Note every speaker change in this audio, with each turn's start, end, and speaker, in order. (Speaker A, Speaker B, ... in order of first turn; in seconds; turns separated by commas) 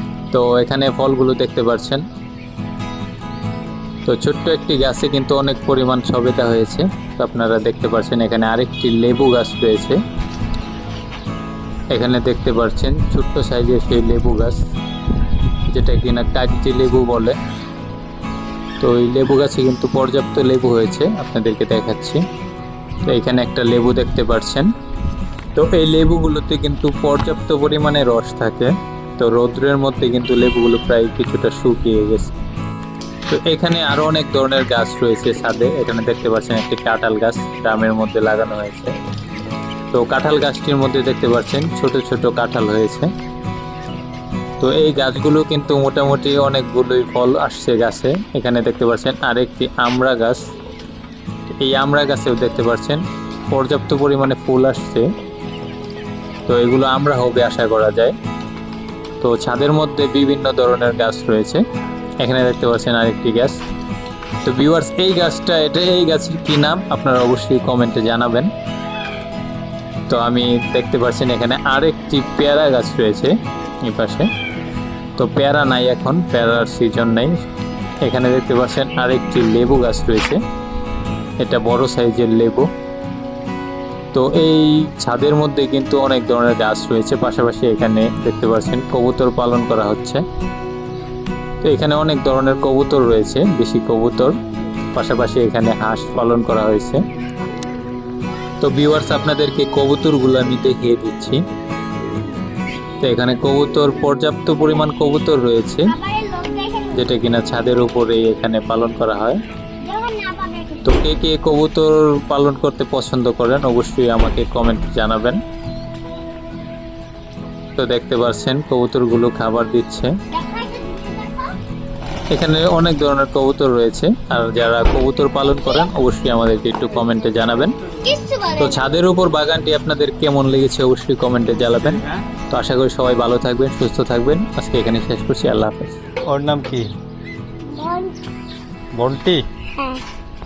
Speaker A: 0.3-2.0, Speaker A: 4.0-10.0, Speaker A: 11.9-14.6, Speaker A: 15.7-17.4, Speaker A: 18.8-22.2, Speaker A: 23.0-24.7, Speaker A: 25.6-32.3, Speaker A: 33.3-38.9, Speaker A: 39.9-43.1, Speaker A: 44.6-50.4, Speaker A: 51.6-55.1, Speaker A: 56.5-58.2, Speaker A: 59.2-61.6, Speaker A: 62.2-63.6, Speaker A: 64.4-68.5, Speaker A: 70.1-74.3, Speaker A: 75.2-77.4, Speaker A: 78.0-80.4, Speaker A: 81.4-82.7, Speaker A: 84.1-90.2, Speaker A: 91.6-94.4, Speaker A: 94.9-97.0, Speaker A: 98.6-101.4, Speaker A: 103.0-106.0, Speaker B: 106.0-107.0, Speaker A: 106.9-109.4, Speaker B: 109.8-110.8, Speaker A: 110.8-115.4, Speaker A: 117.8-120.2, Speaker B: 120.3-121.6, Speaker A: 122.3-127.8, Speaker B: 128.1-128.6, Speaker A: 128.6-136.0, Speaker B: 136.3-136.9, Speaker B: 137.7-138.2, Speaker B: 139.0-140.0